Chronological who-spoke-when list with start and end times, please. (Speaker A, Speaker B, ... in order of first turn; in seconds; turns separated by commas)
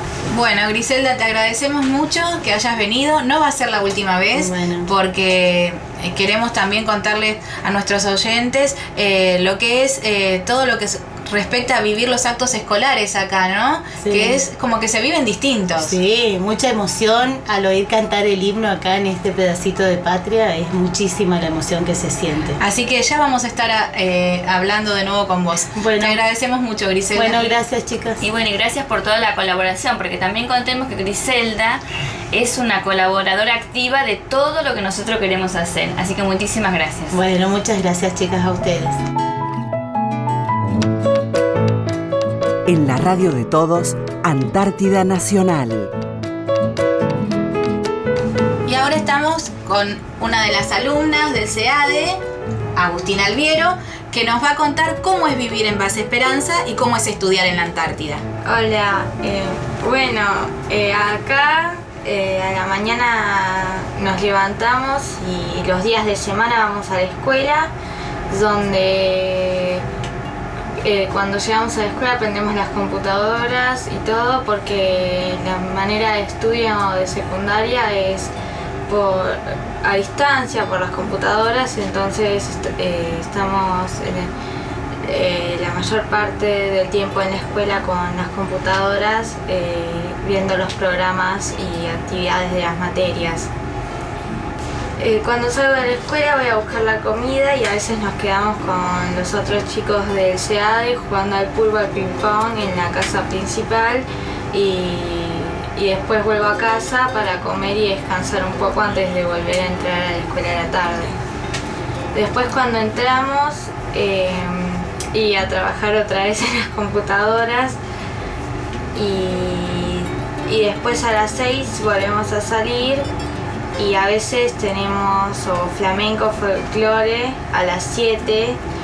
Speaker A: 0.3-15.9, Speaker B: 4.3-4.9, Speaker B: 14.0-14.4, Speaker B: 15.8-22.6, Speaker A: 22.6-27.6, Speaker B: 25.7-26.2, Speaker B: 27.1-28.2, Speaker C: 28.2-37.2, Speaker B: 37.1-39.0, Speaker D: 42.7-45.9, Speaker A: 48.6-52.2, Speaker A: 52.8-58.2, Speaker E: 58.4-67.7, Speaker E: 68.3-69.8, Speaker E: 70.8-78.3, Speaker E: 78.9-84.3, Speaker E: 85.0-93.5, Speaker E: 95.0-111.2, Speaker E: 112.1-117.8, Speaker E: 118.9-123.1, Speaker E: 123.8-128.6